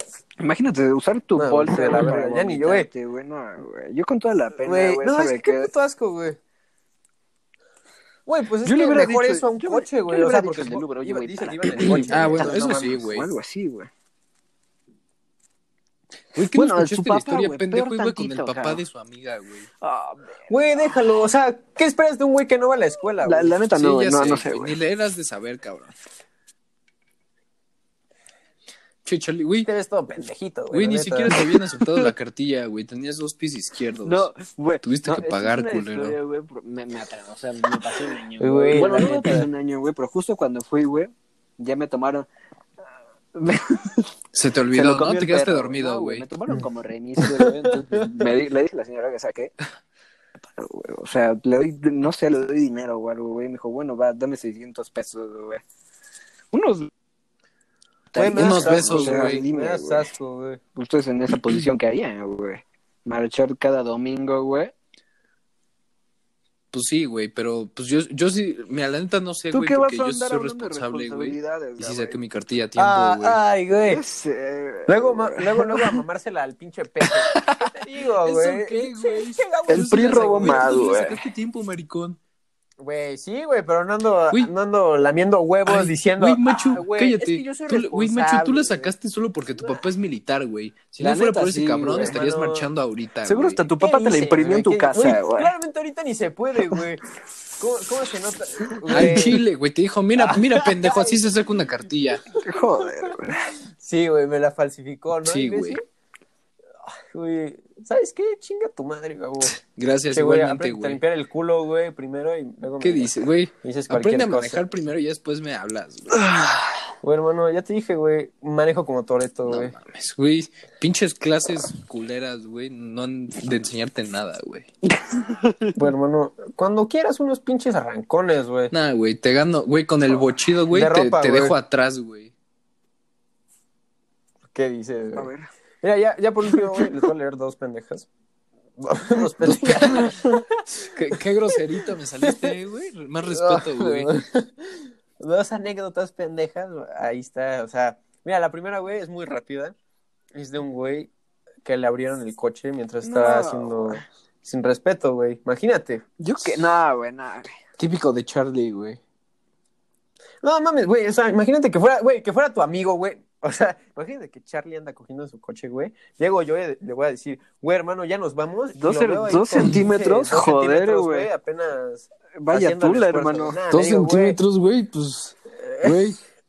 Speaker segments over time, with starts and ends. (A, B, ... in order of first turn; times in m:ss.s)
0:00.4-0:05.7 A
0:01.4-0:02.9 B
0:04.6-0:06.4 B
0:08.3-0:13.0 B
0:08.6-0:13.9 A
0:11.8-0:13.3 C
0:16.4-0:19.7 C
0:16.5-0:18.8 A
0:19.8-0:20.5 A
0:20.5-0:23.6 B
0:23.2-0:24.8 A
0:23.7-0:25.9 C
0:29.0-0:29.7 C
0:29.6-0:31.4 B
0:30.7-0:34.3 C
0:34.0-0:42.3 A
0:34.8-0:36.2 C
0:38.4-0:39.5 B
0:43.3-0:44.1 A
0:44.3-0:46.3 C
0:44.7-0:49.5 A
0:47.2-0:48.3 B
0:50.4-0:55.6 A
0:56.5-0:56.9 A
0:58.1-1:00.1 A
0:58.1-1:00.6 B
0:58.3-0:59.4 C
1:00.8-1:04.7 A
1:06.7-1:13.4 C
1:09.5-1:12.2 A
1:12.8-1:14.0 B
1:13.9-1:15.9 A
1:14.9-1:20.8 B
1:17.3-1:17.7 C
1:18.2-1:22.2 C
1:19.7-1:21.2 A
1:22.8-1:28.9 B
1:25.7-1:33.6 C
1:29.6-1:29.8 B
1:31.0-1:32.1 A
1:31.9-1:32.7 B
1:33.3-1:35.5 A
1:33.8-1:37.0 B
1:37.6-1:39.3 B
1:38.9-1:39.2 A
1:38.9-1:42.2 C
1:40.2-1:41.2 B
1:42.4-1:43.4 A
1:43.8-1:45.8 B
1:45.2-1:45.8 C
1:46.9-1:49.6 B
1:49.6-1:51.0 C
1:50.1-1:53.1 B
1:52.8-1:56.2 C
1:53.6-1:54.6 B
1:56.1-1:56.7 A
1:57.0-1:59.8 B
1:59.5-2:04.7 C
2:04.9-2:05.7 A
2:05.8-2:08.7 B
2:08.7-2:12.3 C
2:10.1-2:11.6 B
2:14.5-2:15.3 B
2:15.2-2:15.5 A
2:15.8-2:18.1 B
2:18.8-2:21.0 B
2:19.4-2:20.1 C
2:20.0-2:20.3 A
2:20.8-2:24.2 C
2:21.6-2:22.5 B
2:23.3-2:29.8 B
2:30.4-2:31.1 B
2:31.6-2:36.0 B
2:33.0-2:34.0 A
2:36.2-2:37.5 A
2:37.8-2:39.0 C
2:40.4-2:54.4 B
2:48.8-2:51.3 A
2:52.4-2:53.6 A
2:53.7-2:56.2 C
2:55.5-2:56.0 B